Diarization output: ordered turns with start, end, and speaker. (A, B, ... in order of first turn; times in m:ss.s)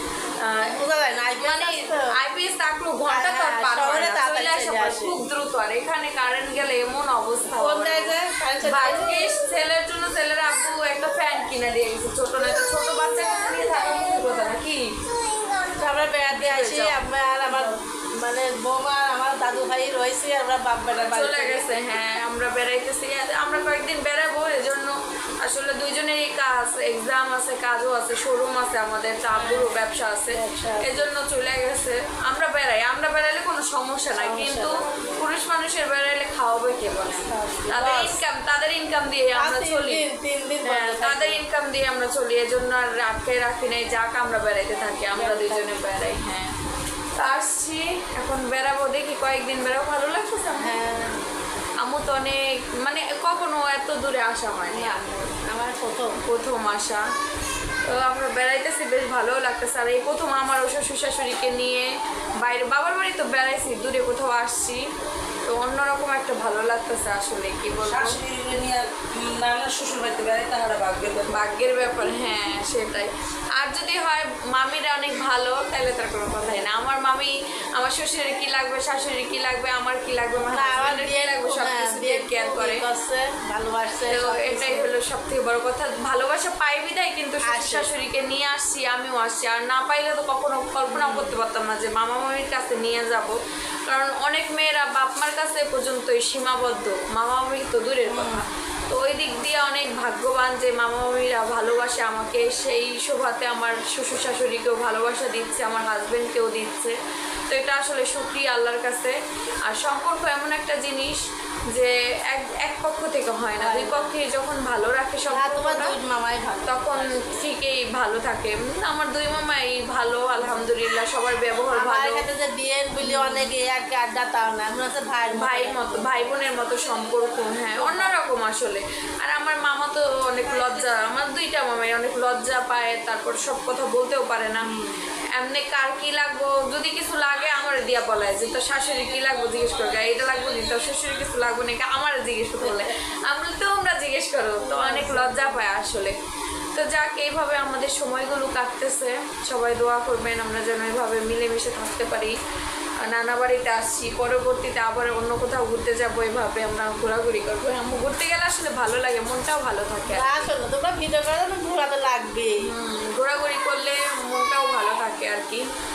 0:00.4-0:00.8 A
0:00.7-0:02.1 B
0:01.4-0:15.0 A
0:03.1-0:05.2 B
0:07.5-0:09.4 B
0:15.6-0:22.1 B
0:16.3-0:17.7 A
0:20.9-0:40.0 A
0:29.3-0:29.8 B
0:30.3-0:31.1 B
0:34.2-0:35.1 B
0:37.3-0:38.2 B
0:39.4-0:41.4 B
0:40.6-0:46.5 A
0:45.1-0:45.8 B
0:47.1-0:50.8 A
0:50.6-0:51.1 B
0:51.8-0:55.2 A
0:54.7-0:56.2 B
0:56.2-0:57.0 A
0:57.8-1:01.9 A
1:02.4-1:04.8 A
1:05.4-1:08.2 A
1:07.8-1:11.3 C
1:11.3-1:22.8 A
1:20.5-1:24.9 B
1:24.1-1:47.0 A
1:27.4-1:27.9 B
1:30.9-1:31.4 B
1:38.0-1:38.4 B
1:47.5-1:51.2 A
1:51.7-1:55.9 A
1:53.6-1:54.1 B
1:55.3-1:57.0 B
1:56.6-2:02.2 A
2:01.7-2:06.3 B
2:03.0-2:03.5 A
2:05.3-2:14.7 A
2:07.8-2:08.1 B
2:14.6-2:15.0 B
2:15.3-2:26.1 A
2:22.6-2:22.9 B
2:24.6-2:25.7 B
2:26.7-2:32.3 A
2:33.0-2:40.3 A
2:40.1-2:42.6 B
2:42.6-2:45.6 A